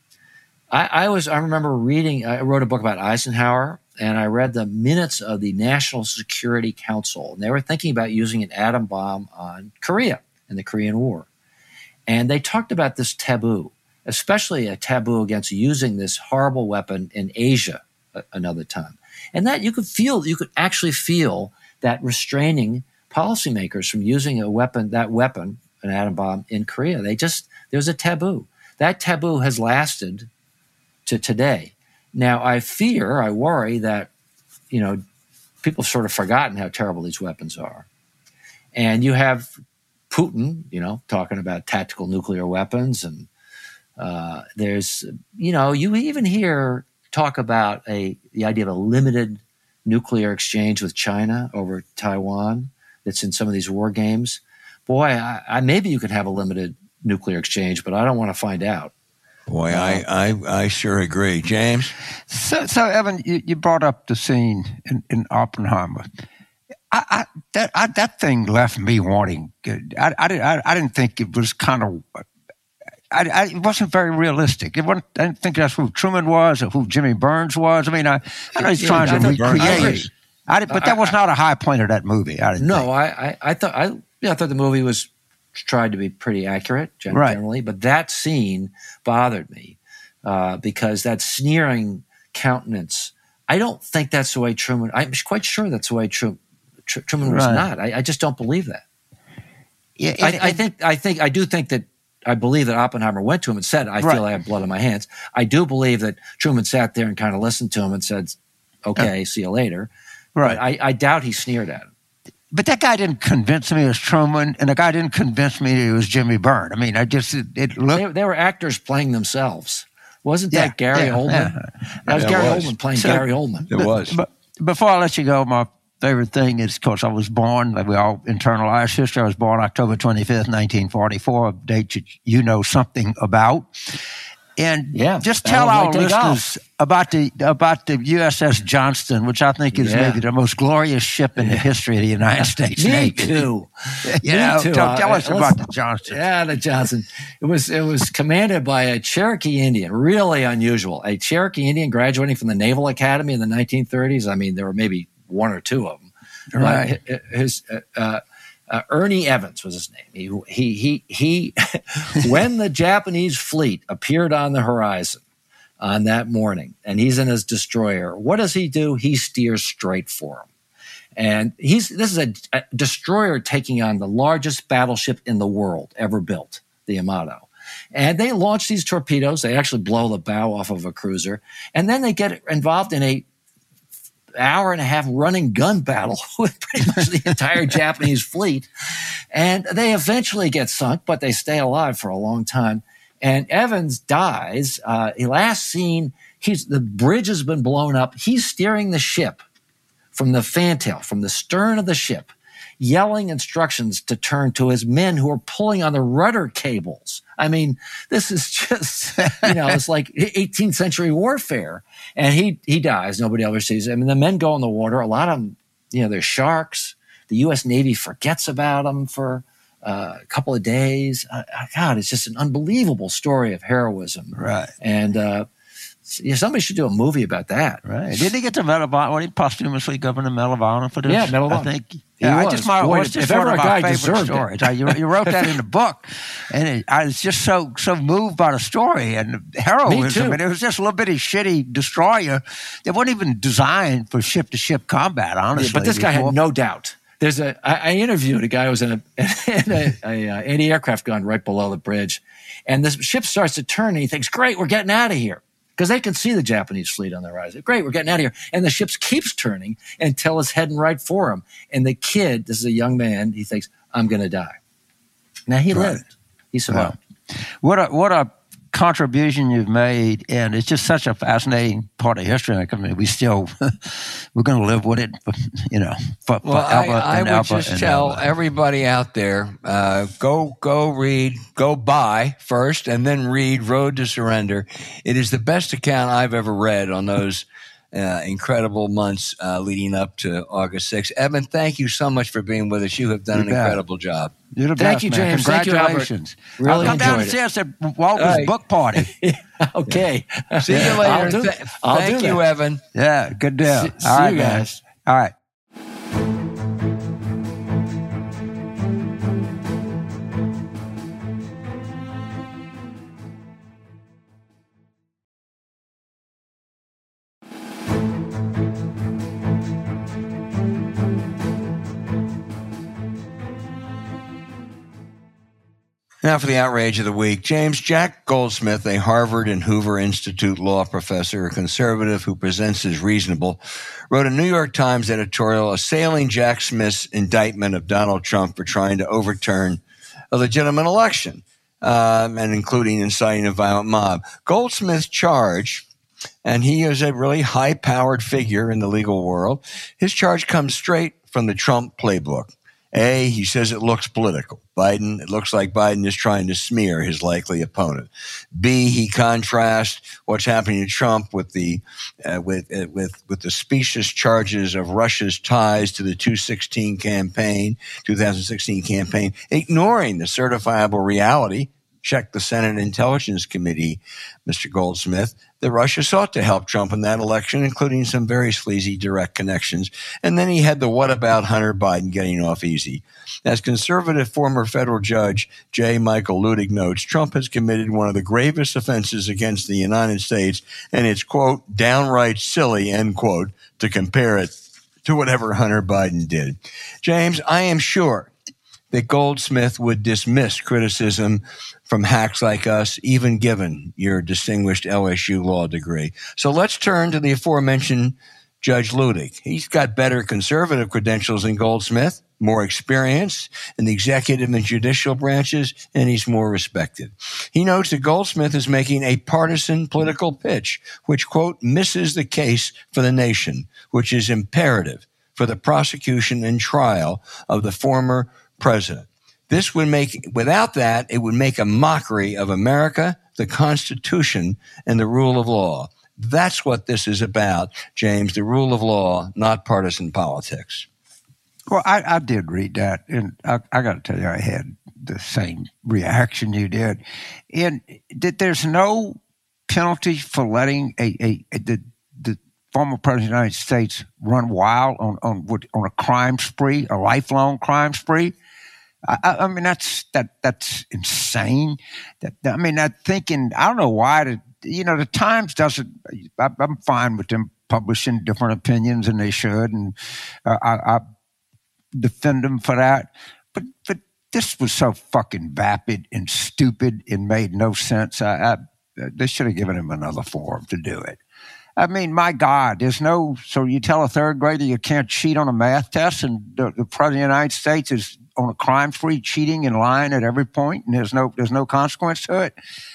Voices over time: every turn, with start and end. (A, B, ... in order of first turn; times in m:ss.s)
0:00.7-0:11.3 A
0:12.1-0:30.3 A
0:31.1-0:34.1 A
0:34.7-0:35.0 A
0:35.6-0:37.9 A
0:38.7-0:39.5 A
0:40.1-0:43.3 A
0:44.0-0:58.9 A
0:59.5-1:01.9 B
0:59.7-1:00.0 A
1:02.3-1:06.1 C
1:06.9-1:12.2 C
1:13.1-1:22.9 C
1:18.6-1:20.1 A
1:18.9-1:20.1 B
1:20.7-1:21.1 A
1:22.6-1:38.8 A
1:27.1-1:27.4 C
1:37.2-1:37.7 C
1:40.0-1:40.6 C
1:40.2-1:49.9 A
1:50.4-1:50.6 C
1:50.4-1:51.9 A
1:52.5-1:58.0 C
1:57.9-2:01.6 A
2:00.5-2:14.0 C
2:02.1-2:03.7 A
2:02.1-2:02.7 B
2:03.7-2:04.2 B
2:14.6-2:23.5 C
2:14.9-2:16.4 A
2:19.8-2:20.2 A
2:21.4-2:21.6 A
2:22.8-2:25.6 A
2:24.1-2:26.2 C
2:26.1-2:45.2 A
2:36.5-2:37.0 C
2:45.8-2:50.5 A
2:51.2-3:03.3 A
3:04.4-3:08.7 A
3:09.3-3:19.4 A
3:20.1-3:45.5 A
3:29.4-3:29.8 C
3:44.4-3:44.7 C
3:46.1-3:47.8 A
3:47.8-4:06.4 C
3:51.1-3:55.5 A
3:59.9-4:00.4 A
4:05.6-4:24.6 A
4:25.5-4:27.0 A
4:25.7-4:26.0 C
4:26.7-4:27.0 C
4:27.6-4:38.2 C
4:36.4-4:54.3 B
4:53.3-4:53.8 C
4:54.5-4:59.1 C
4:54.8-4:57.4 A
4:58.2-4:58.5 B
4:59.0-5:02.4 A
5:00.6-5:02.8 B
5:02.9-5:05.3 C
5:03.6-5:04.8 A
5:26.2-5:33.6 B
5:34.1-5:39.8 B
5:40.3-5:45.8 B
5:46.4-6:34.5 B
6:35.0-6:38.3 B
6:38.9-7:20.9 B
7:21.7-7:27.0 C
7:27.5-7:38.4 C
7:39.1-7:51.0 C
7:52.0-8:01.2 C
8:01.8-8:12.6 C